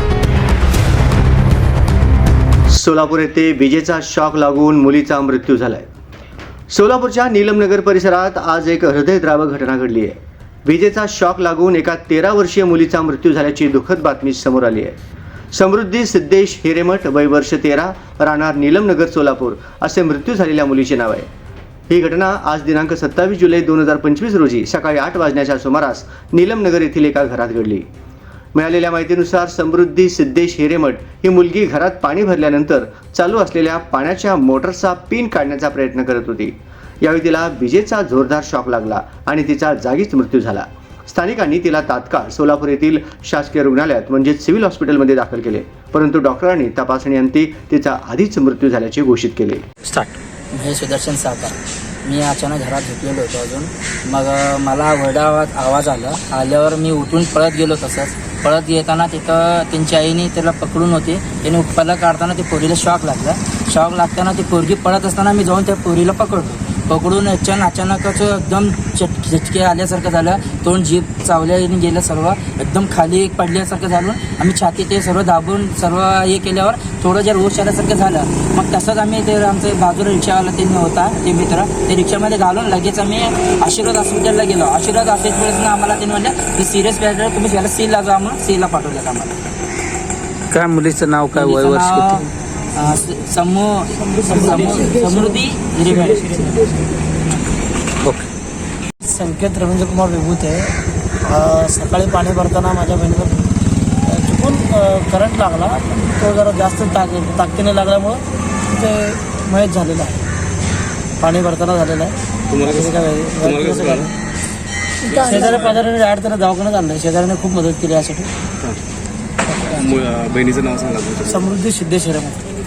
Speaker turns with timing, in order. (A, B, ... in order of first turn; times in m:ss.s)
0:02.7-0:05.9 A
0:06.7-0:15.0 A
0:15.5-0:21.3 A
0:21.9-0:27.9 A
0:28.5-0:49.6 A
0:49.8-0:50.2 B
0:50.5-1:29.4 C
1:30.5-1:32.3 B
1:31.3-1:36.6 C
1:38.0-1:38.3 B
1:39.0-1:43.4 D
1:44.0-1:48.2 D
1:48.7-1:50.2 D
1:51.2-1:54.1 D
1:52.5-1:54.1 E
1:55.0-1:58.3 D
1:55.1-1:55.8 E
1:59.6-2:01.6 E
2:01.3-2:02.5 D